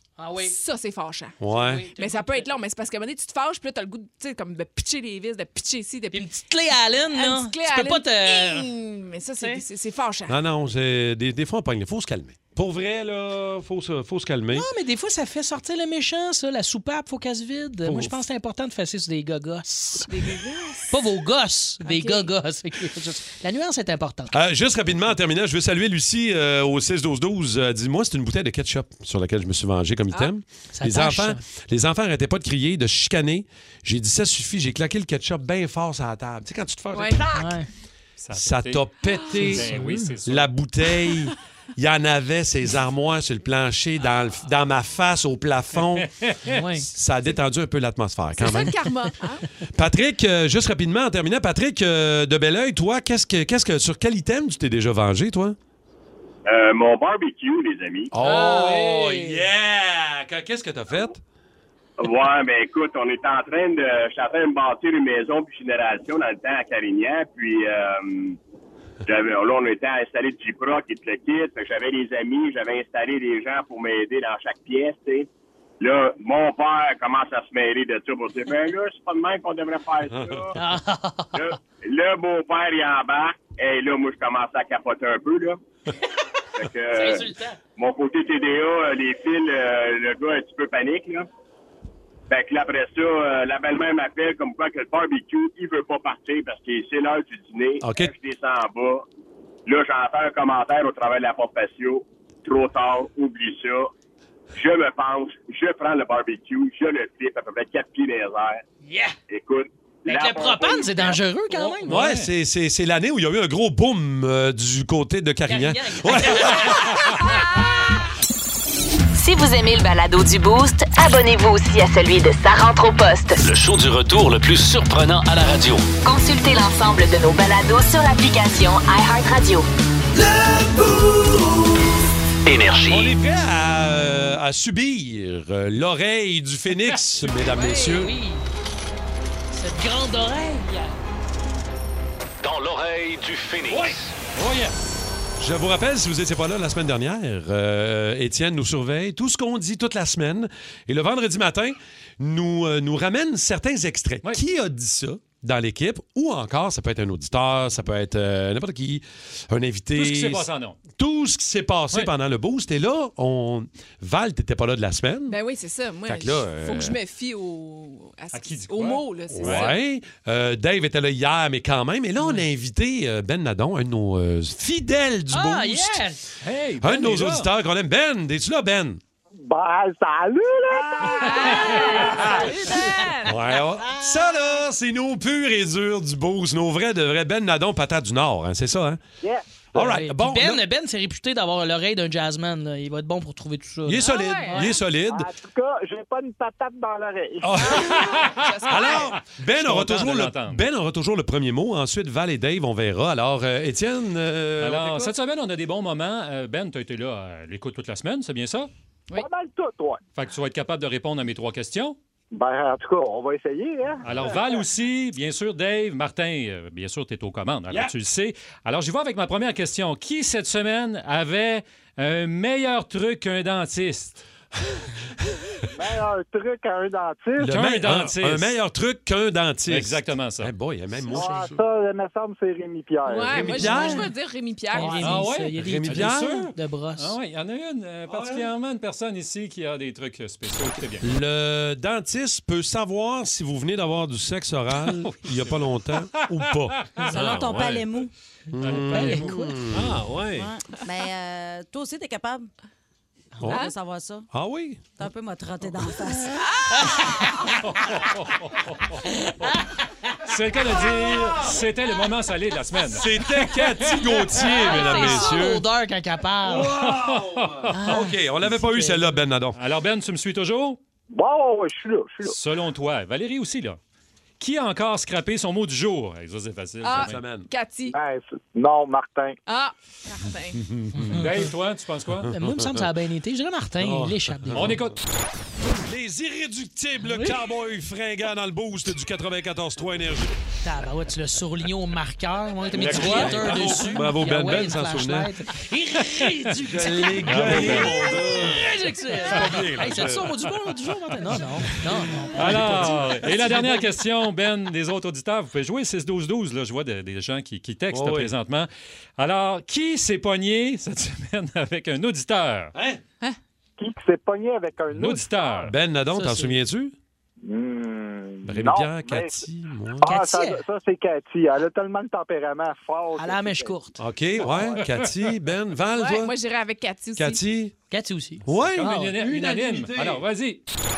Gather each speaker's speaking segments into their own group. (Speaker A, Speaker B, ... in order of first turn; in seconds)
Speaker A: 0.2-0.6, 1.5-2.5, 6.1-8.7, 14.5-20.1, 20.9-24.3, 30.7-31.4, 37.3-37.7, 39.4-40.1, 46.5-46.9, 58.2-59.3, 80.5-81.4, 86.9-87.6, 108.8-109.2, 110.0-112.0, 115.5-117.3, 137.7-138.4, 139.5-141.0, 175.3-176.2, 189.8-194.7, 231.1-231.5, 233.5-234.1, 234.7-237.1, 248.9-249.5, 256.7-257.2, 264.4-266.8, 267.7-269.2, 280.9-281.4, 282.3-284.8, 287.0-287.4, 290.6-303.6, 316.1-316.6, 320.0-320.6, 323.2-324.0, 327.9-329.2
Speaker B: 0.4-1.4, 1.9-6.3, 7.1-10.4, 20.1-21.0, 21.8-22.3, 36.9-37.2, 48.4-49.5, 137.4-138.0, 165.3-169.8, 181.0-183.4, 194.0-194.8, 197.6-199.1, 233.1-235.0, 276.8-277.9, 279.5-280.6, 325.9-327.4
Speaker C: 1.4-1.9, 10.3-14.7, 17.8-18.2, 24.3-37.5, 38.3-46.1, 46.8-48.8, 49.7-55.5, 58.1-61.2, 80.1-80.4, 97.8-98.1, 111.8-117.0, 132.9-138.1, 145.4-165.4, 166.1-167.0, 169.3-176.0, 176.8-179.0, 182.0-182.5, 183.2-189.0, 189.7-190.6, 193.8-195.3, 197.4-205.1, 227.4-231.6, 233.3-234.1, 235.2-236.5, 238.1-238.5, 241.0-247.8, 248.5-250.3, 254.3-254.8, 262.9-265.6, 266.4-269.6, 276.9-277.5, 280.6-281.5, 282.2-282.8, 283.8-284.9, 285.6-290.3, 292.7-295.3, 296.6-300.4, 301.7-303.9, 307.9-308.3, 312.7-313.0, 315.7-316.9, 318.4-320.2, 324.0-326.3, 327.2-327.7, 328.4-330.2
Speaker D: 38.2-40.5, 45.9-46.6, 58.3-58.8, 111.9-112.3, 144.3-144.9, 159.9-160.8, 168.3-169.8, 176.4-177.5, 198.2-198.7, 199.4-200.6, 204.6-208.7, 210.2-212.0, 214.0-224.2, 227.4-228.5, 229.7-230.5, 235.0-241.1, 244.8-247.4, 248.6-250.3, 257.6-259.0, 260.2-264.1, 266.8-267.8, 269.5-270.8, 272.2-273.8, 274.4-277.2, 281.1-282.3, 284.5-285.0, 292.9-293.7, 297.2-298.0, 302.3-312.7, 314.9-315.7, 324.6-325.1, 328.7-330.6
Speaker E: 56.5-58.1, 62.0-68.4, 69.0-75.3, 75.8-80.5, 81.3-85.6, 86.6-87.2, 87.8-91.3, 92.3-99.0, 99.7-103.9, 104.5-108.6, 109.3-111.2
Speaker F: 119.1-123.4, 126.0-129.7
Speaker G: 123.4-125.8, 132.4-133.2, 142.4-144.1
Speaker H: 179.4-182.7, 195.1-197.6, 209.1-210.0, 212.3-214.6, 225.7-227.5, 231.1-233.4, 271.1-272.3, 277.9-279.4, 313.8-315.4, 317.4-319.4, 320.0-323.8
Speaker I: 247.0-248.1, 250.3-252.4, 253.5-254.3, 255.0-256.4